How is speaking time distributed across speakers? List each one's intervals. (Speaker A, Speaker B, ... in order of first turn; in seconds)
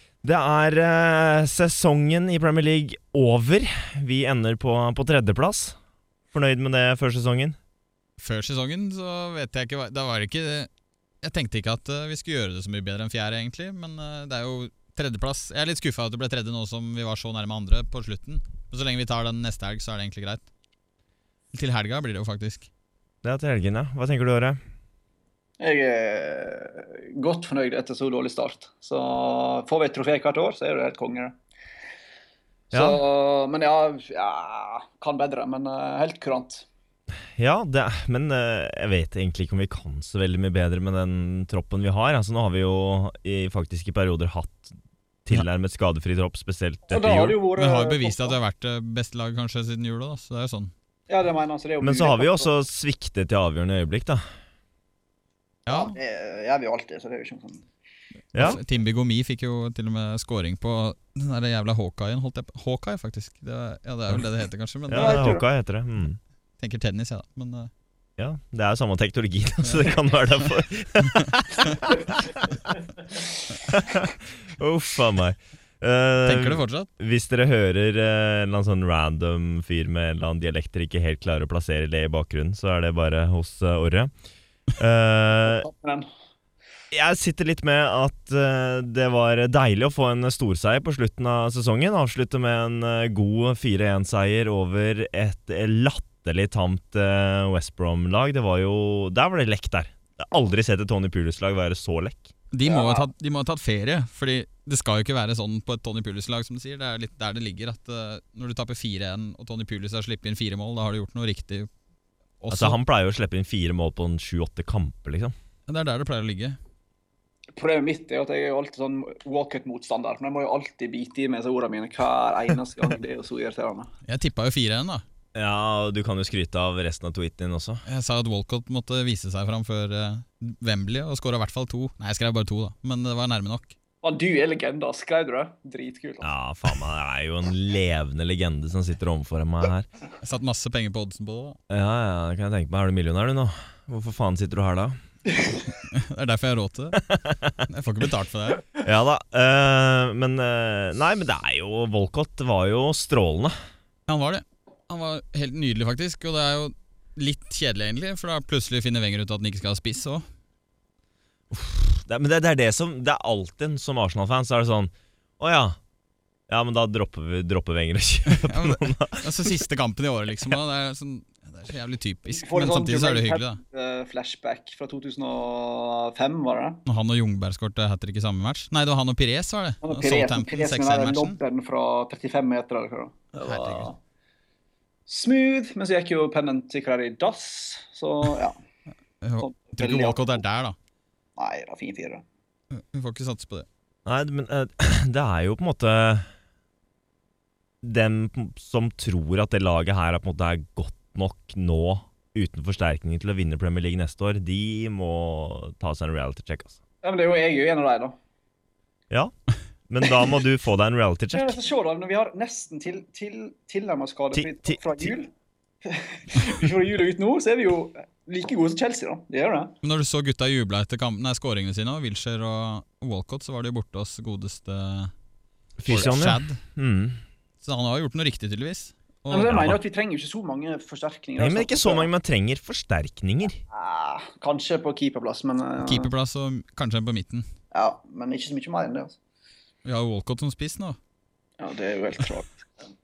Speaker A: 0.2-5.8, 6.3-7.6, 23.2-24.6, 32.7-33.0, 37.4-44.7, 45.2-47.4, 51.8-54.2, 58.3-58.6, 64.9-66.2, 68.2-72.8, 73.6-84.1, 84.8-85.7, 86.9-102.3, 112.5-115.3, 125.3-127.8, 136.2-139.9, 141.7-145.0, 147.0-147.6, 148.8-153.5, 161.5-165.8, 166.5-169.6, 194.1-196.3, 197.8-206.8, 209.9-211.6, 214.3-215.1, 225.8-227.2, 231.4-233.6
Speaker B: 8.2-10.7, 11.2-20.4, 21.5-22.7, 47.5-50.7, 55.7-56.0, 58.4-65.2, 66.6-67.7, 76.2-76.9, 102.5-111.7, 112.4-112.8, 115.7-116.6, 124.0-125.0, 127.8-133.7, 140.2-141.6, 145.8-147.0, 147.7-148.6, 154.1-160.2, 168.3-173.6, 176.8-181.4, 183.3-183.9, 189.2-190.8, 192.7-193.7, 219.8-225.1, 225.9-226.6, 227.6-229.8, 235.8-237.5, 239.8-241.0
Speaker C: 25.6-31.3, 32.7-36.7, 46.9-48.4, 51.1-52.5, 55.7-57.6, 64.9-65.5, 85.5-86.1, 102.7-103.1, 117.6-123.9, 134.0-136.3, 172.3-176.8, 179.8-184.0, 185.1-188.6, 189.4-190.4, 191.4-192.2, 207.0-208.2, 211.3-215.3, 215.8-219.8, 229.3-232.1, 233.7-236.1, 237.7-239.2, 241.6-242.7